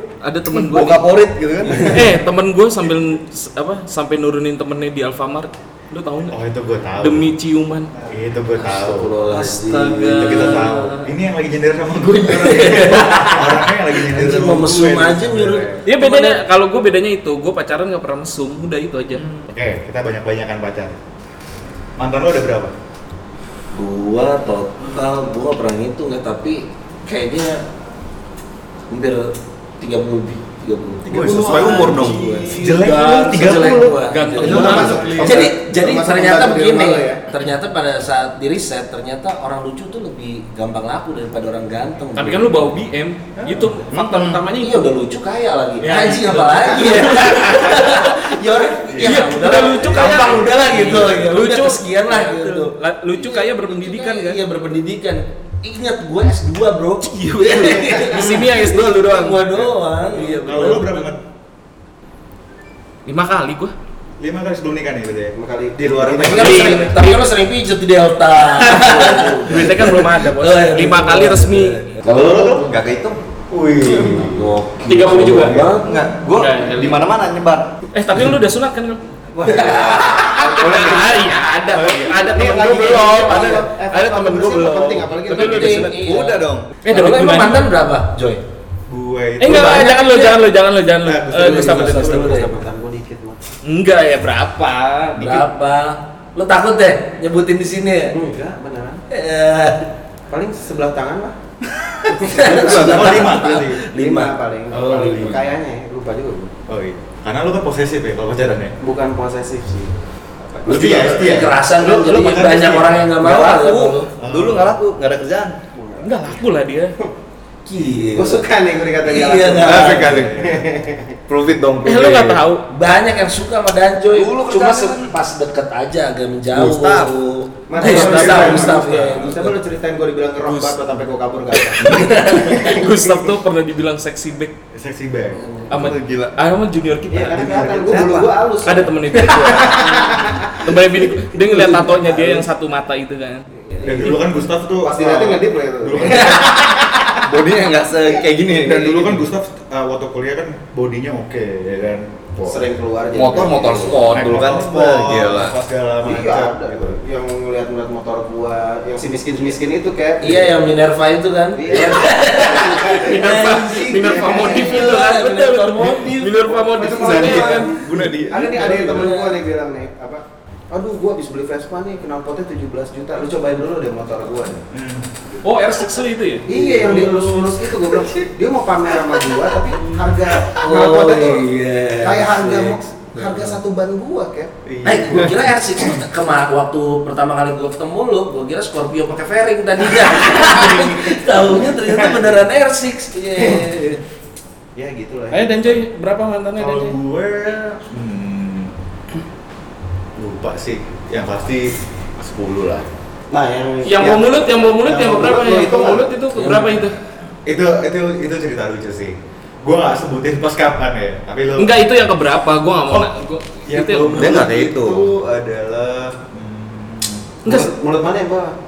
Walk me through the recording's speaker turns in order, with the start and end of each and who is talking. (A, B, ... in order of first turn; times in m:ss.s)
0:00.2-0:01.1 A
0:00.6-0:02.1 B
0:01.7-0:02.0 C
0:01.8-0:06.4 A
0:06.3-0:07.3 D
0:07.0-0:07.9 A
0:08.0-0:09.1 D
0:08.6-0:10.7 C
0:09.3-0:11.1 A
0:10.0-0:15.8 D
0:12.4-0:16.4 C
0:15.8-0:19.4 A
0:19.4-0:21.0 D
0:22.0-0:22.7 D
0:23.7-0:27.6 C
0:28.9-0:42.7 C
0:31.0-0:35.5 D
0:31.2-0:32.3 B
0:32.8-0:35.5 A
0:34.4-0:37.2 E
0:42.1-0:44.9 A
0:43.9-0:44.4 B
0:44.6-1:01.0 C
0:45.8-0:48.0 A
0:48.9-0:51.2 D
0:49.0-0:54.4 A
0:57.1-0:59.6 A
0:59.6-1:01.2 D
1:03.0-1:03.7 A
1:04.2-1:06.8 D
1:05.3-1:06.9 E
1:06.2-1:12.6 C
1:06.3-1:07.3 A
1:08.5-1:11.9 A
1:09.1-1:09.4 E
1:12.0-1:12.7 D
1:12.3-1:13.2 B
1:13.5-1:14.5 D
1:13.9-1:15.8 C
1:14.9-1:15.6 A
1:15.2-1:15.7 D
1:15.8-1:17.7 B
1:16.3-1:17.0 A
1:17.9-1:19.0 A
1:19.4-1:21.4 E
1:19.4-1:20.6 C
1:20.1-1:26.2 A
1:21.7-1:22.4 D
1:22.0-1:26.1 E
1:25.3-1:28.4 C
1:25.8-1:26.7 B
1:26.8-1:27.7 A
1:28.9-1:29.9 D
1:29.4-1:32.5 A
1:29.4-1:30.4 C
1:31.0-1:32.2 D
1:31.3-1:32.5 C
1:31.3-1:33.4 E
1:33.6-1:35.4 A
1:35.2-1:38.2 C
1:35.2-1:35.4 D
1:38.1-1:39.0 E
1:39.1-1:39.9 C
1:40.3-1:41.4 E
1:41.7-1:43.8 D
1:42.1-1:43.4 E
1:42.2-1:44.3 C
1:43.9-1:46.5 E
1:44.7-1:45.5 D
1:46.7-1:48.7 D
1:48.8-1:49.9 E
1:50.4-1:53.2 D
1:50.6-1:54.1 C
1:53.2-1:55.6 B
1:54.2-1:54.7 D
1:55.7-1:56.4 E
1:56.0-1:57.0 A
1:57.6-1:58.4 C
1:58.1-2:01.2 E
1:59.0-2:00.2 C
1:59.6-2:00.4 B
1:59.7-2:00.7 D
2:01.3-2:02.4 B
2:01.8-2:02.6 A
2:02.7-2:09.5 C
2:04.1-2:05.1 B
2:06.5-2:07.2 B
2:07.7-2:13.3 E
2:07.8-2:08.2 A
2:07.9-2:09.0 D
2:10.4-2:10.9 A
2:11.8-2:12.7 C
2:11.8-2:14.6 A
2:14.7-2:15.4 D
2:15.7-2:17.7 A
2:15.7-2:16.3 B
2:17.1-2:20.8 E
2:17.2-2:18.3 D
2:17.9-2:18.2 B
2:18.6-2:23.5 A
2:21.4-2:22.3 C
2:22.1-2:22.4 E
2:23.8-2:24.1 E
2:23.8-2:26.9 D
2:24.8-2:27.0 E
2:27.2-2:29.2 B
2:28.5-2:32.7 D
2:32.4-2:34.2 E
2:33.2-2:35.6 B
2:34.1-2:37.0 D
2:36.0-2:40.7 E
2:40.2-2:47.7 C
2:41.5-2:45.0 E
2:42.9-2:47.8 A
2:46.7-2:54.6 E
2:47.4-2:49.2 D
2:48.6-2:49.3 C
2:54.7-2:55.1 D
2:55.4-2:57.5 A
2:56.5-3:01.5 E
2:56.5-2:57.2 C
3:00.6-3:03.5 C
3:02.0-3:04.5 E
3:04.6-3:05.5 D
3:04.8-3:14.0 C
3:14.8-3:15.8 E
3:15.3-3:17.0 A
3:16.6-3:18.7 D
3:20.2-3:22.9 D
3:23.3-3:26.1 E
3:23.8-3:27.0 A
3:26.3-3:26.8 C
3:27.4-3:31.9 D
3:31.6-3:34.5 A
3:32.9-3:37.4 D
3:34.2-3:35.1 B
3:37.4-3:37.7 A
3:37.4-3:38.6 E